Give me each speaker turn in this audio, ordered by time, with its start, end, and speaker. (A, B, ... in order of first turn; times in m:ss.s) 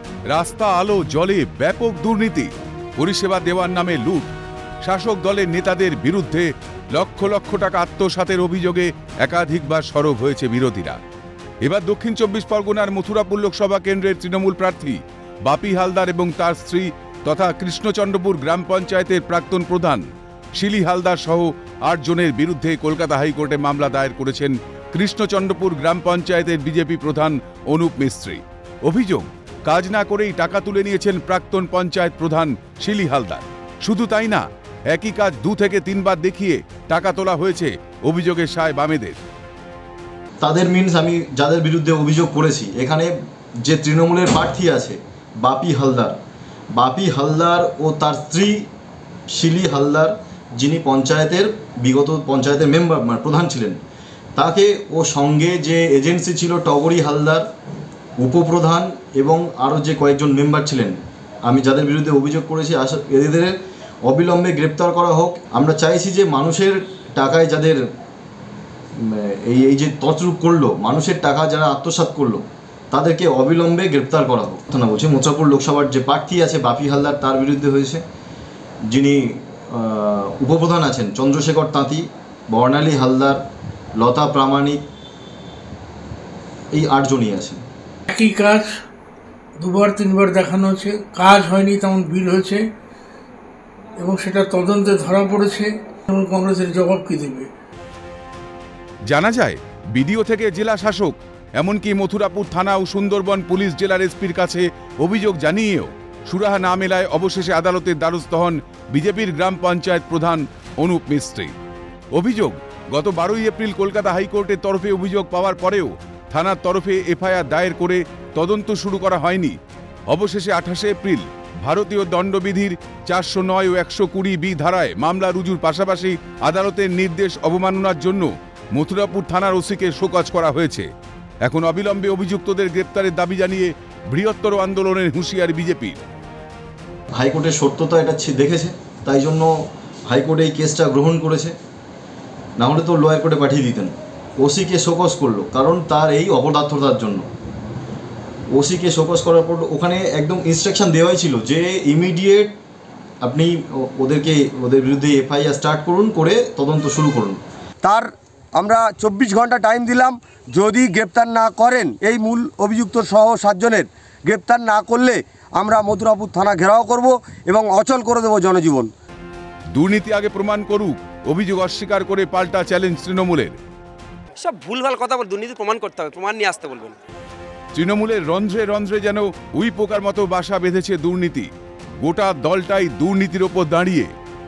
0:00.3-0:04.3 A
0:04.8-0:11.0 A
0:11.6-0:39.2 A
0:40.4-0:46.2 B
0:46.7-0:48.7 B
0:49.3-0:53.8 B
0:54.4-0:57.5 B
0:58.2-1:07.8 B
1:09.0-1:18.0 B
1:18.9-1:23.4 B
1:24.0-1:24.8 B
1:26.7-1:27.6 B
1:28.1-1:28.7 C
1:29.6-1:32.6 C
1:34.0-1:37.5 C
1:39.0-1:51.6 A
1:52.1-1:59.6 A
2:00.1-2:10.9 A
2:11.4-2:16.0 A
2:17.1-2:19.6 B
2:20.1-2:21.6 B
2:22.6-2:27.3 B
2:28.5-2:32.6 B
2:33.2-2:37.4 B
2:37.8-2:48.9 D
2:49.7-2:53.6 A
2:54.4-2:57.0 E
2:57.7-3:04.1 A